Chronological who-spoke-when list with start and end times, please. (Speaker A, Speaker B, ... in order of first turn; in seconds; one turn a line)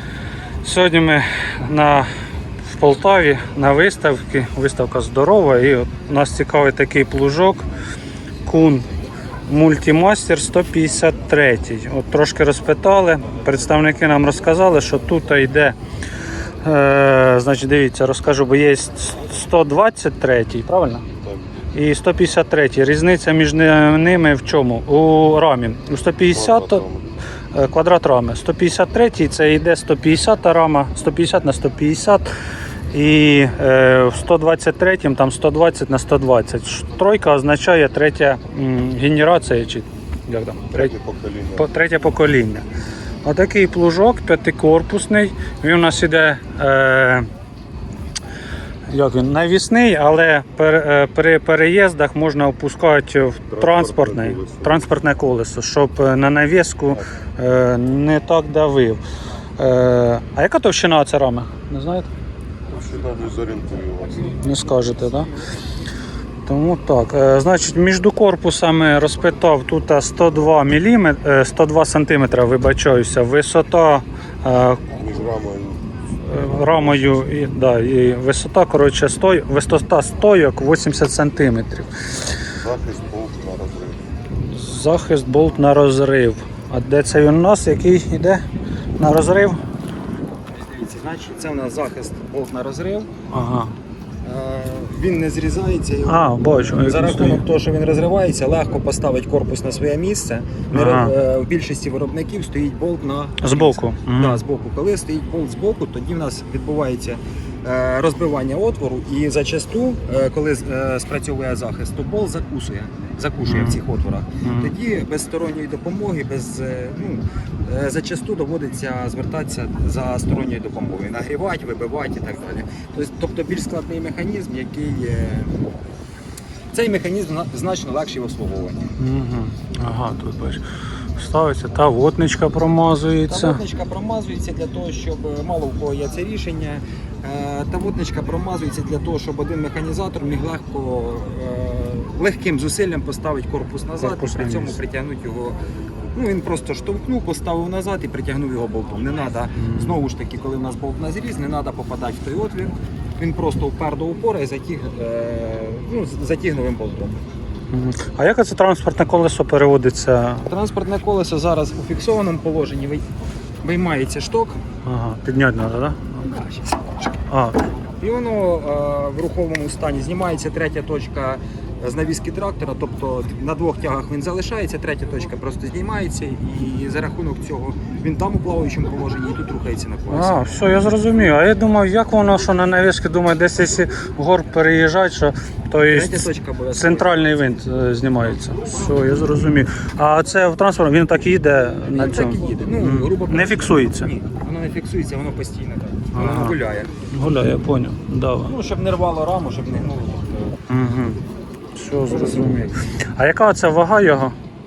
Speaker A: 0.6-2.1
Speaker A: 2.7-7.7
Speaker A: 8.5-8.9
Speaker A: 9.5-15.8
Speaker A: 16.6-21.1
Speaker A: 21.7-26.9
Speaker B: 26.3-27.1
Speaker A: 27.5-32.3
Speaker A: 32.9-40.9
Speaker B: 40.7-41.7
Speaker A: 41.6-42.6
Speaker A: 43.2-47.3
Speaker A: 48.9-59.0
Speaker B: 53.5-54.8
Speaker A: 59.6-62.1
Speaker B: 62.7-64.4
Speaker A: 64.3-65.3
Speaker A: 66.5-75.0
Speaker B: 75.0-75.9
Speaker A: 76.2-81.9
Speaker B: 82.5-84.0
Speaker A: 84.3-88.4
Speaker A: 89.0-89.6
Speaker C: 90.6-93.1
Speaker A: 93.3-93.7
Speaker C: 94.2-125.5
Speaker A: 96.1-97.4
Speaker A: 100.7-101.1
Speaker A: 103.4-104.4
Speaker A: 113.5-113.8
Speaker A: 114.4-114.7
Speaker C: 126.7-128.9
Speaker A: 129.0-130.6
Speaker A: 131.2-133.6
Speaker C: 133.3-145.6
Speaker A: 144.0-144.8
Speaker C: 146.2-157.2
Speaker A: 149.6-150.0
Speaker A: 157.7-160.5
Speaker C: 160.4-163.0
Speaker C: 163.6-164.6
Speaker A: 164.8-166.0
Speaker C: 166.1-166.9
Speaker A: 167.3-167.6
Speaker C: 167.8-180.6
Speaker A: 180.1-194.1
Speaker C: 185.9-187.7
Speaker C: 191.9-196.9
Speaker A: 196.1-196.6
Speaker A: 197.1-198.5
Speaker C: 198.4-200.6
Speaker A: 200.7-201.2
Speaker A: 201.8-204.3
Speaker C: 202.2-202.4